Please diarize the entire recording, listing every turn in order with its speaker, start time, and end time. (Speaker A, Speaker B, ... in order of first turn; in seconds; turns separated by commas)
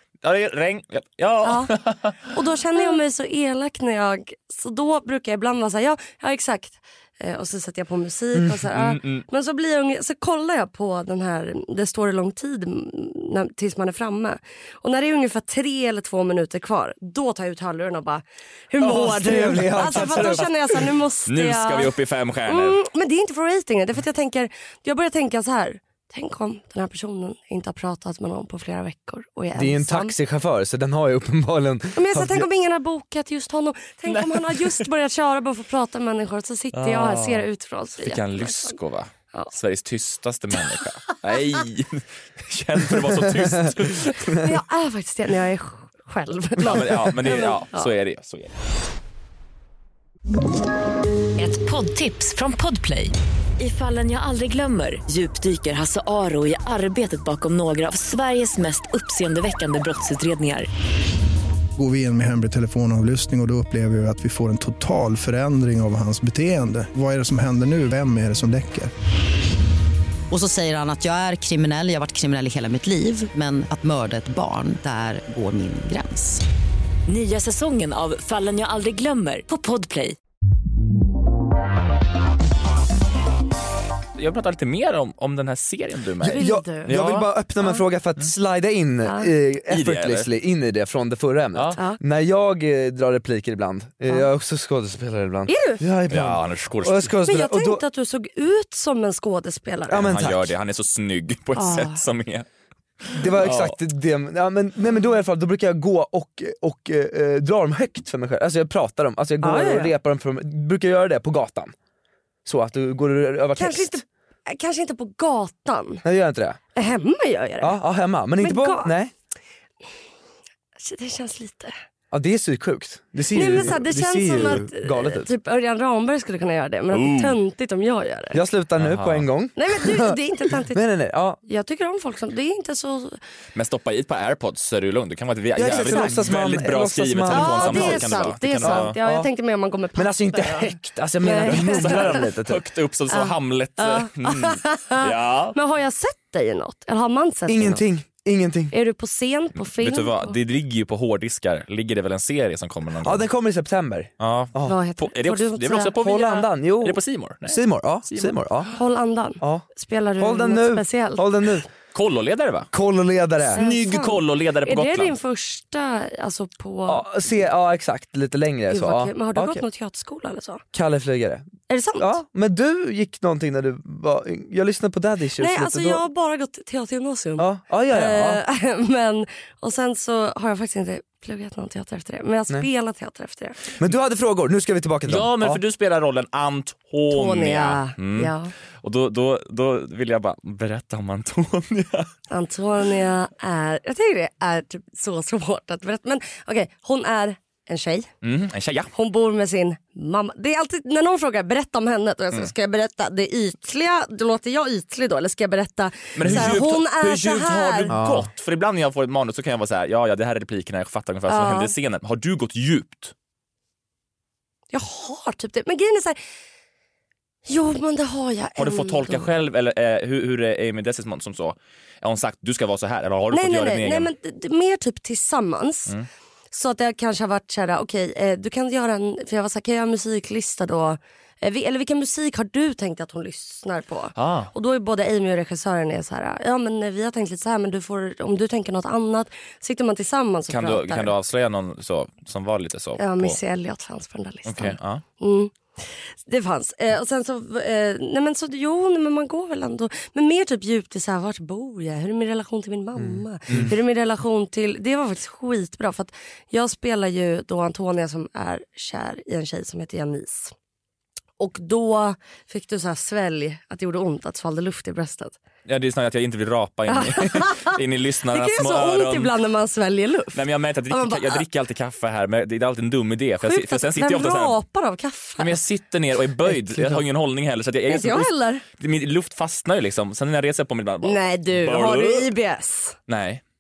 Speaker A: 0.2-2.2, Speaker B: 1.4-21.9, Speaker A: 8.7-9.2, Speaker C: 18.8-20.4, Speaker A: 20.0-20.4, Speaker A: 21.3-22.8, Speaker B: 22.5-30.1, Speaker C: 29.6-32.5, Speaker B: 32.0-38.8, Speaker A: 34.1-34.8, Speaker A: 36.7-37.5, Speaker A: 38.0-44.4, Speaker B: 44.3-47.9, Speaker A: 46.6-48.5, Speaker D: 51.4-60.7, Speaker E: 61.8-68.9, Speaker F: 70.3-76.4, Speaker D: 77.1-80.2, Speaker A: 84.2-87.1, Speaker C: 86.2-97.8, Speaker B: 86.2-87.8, Speaker B: 89.0-89.3, Speaker A: 89.7-90.3, Speaker B: 95.5-95.8, Speaker A: 96.1-97.1, Speaker B: 97.2-100.1, Speaker C: 99.9-100.5, Speaker A: 100.0-102.5, Speaker B: 101.6-102.0, Speaker A: 103.0-103.8, Speaker C: 103.2-111.7, Speaker B: 109.4-109.9, Speaker C: 112.5-114.0, Speaker B: 113.6-116.0, Speaker C: 116.0-116.6, Speaker B: 116.8-117.8, Speaker C: 117.6-119.1, Speaker B: 118.4-118.9, Speaker B: 120.8-121.7, Speaker C: 122.1-125.3, Speaker B: 123.3-128.4, Speaker A: 126.9-127.4, Speaker C: 128.3-130.2, Speaker A: 128.8-129.3, Speaker B: 129.6-130.8, Speaker C: 130.7-131.4, Speaker B: 131.4-133.2, Speaker A: 133.6-138.9, Speaker C: 135.6-139.3, Speaker B: 135.7-136.2, Speaker B: 137.3-140.6, Speaker C: 139.9-142.6, Speaker B: 141.2-142.2, Speaker A: 141.4-145.6, Speaker B: 143.8-147.9, Speaker C: 147.5-148.7, Speaker B: 148.7-150.3, Speaker A: 149.6-153.3, Speaker C: 153.0-154.8, Speaker A: 154.2-158.4, Speaker B: 154.7-155.9, Speaker C: 156.0-158.7, Speaker B: 158.8-161.2, Speaker C: 159.4-159.7, Speaker C: 160.2-161.7, Speaker A: 161.9-162.7, Speaker C: 162.7-163.6, Speaker A: 163.5-165.2, Speaker B: 163.6-167.1, Speaker C: 166.9-169.6, Speaker B: 168.7-170.6, Speaker C: 170.7-171.5, Speaker B: 171.7-172.2, Speaker C: 172.0-176.0, Speaker B: 175.4-183.6, Speaker C: 177.4-178.4, Speaker C: 183.8-185.6, Speaker A: 185.1-192.1, Speaker B: 187.1-188.5, Speaker B: 192.3-198.1, Speaker A: 198.2-198.9, Speaker B: 198.9-207.9, Speaker A: 206.2-213.1, Speaker C: 206.3-206.5, Speaker C: 207.9-208.3, Speaker B: 211.3-211.7, Speaker B: 214.7-216.2, Speaker B: 217.5-219.3, Speaker A: 218.6-224.1, Speaker B: 223.3-225.9, Speaker B: 226.5-241.1, Speaker A: 234.2-234.5, Speaker A: 240.5-243.4, Speaker B: 243.0-260.5, Speaker A: 244.5-245.0, Speaker C: 253.0-253.7, Speaker B: 261.4-265.4, Speaker A: 265.7-269.3, Speaker B: 266.9-267.8, Speaker B: 268.3-271.4, Speaker A: 270.3-274.6, Speaker B: 273.4-275.6, Speaker A: 275.4-282.3, Speaker B: 277.9-278.6, Speaker B: 281.0-283.0, Speaker A: 283.1-283.4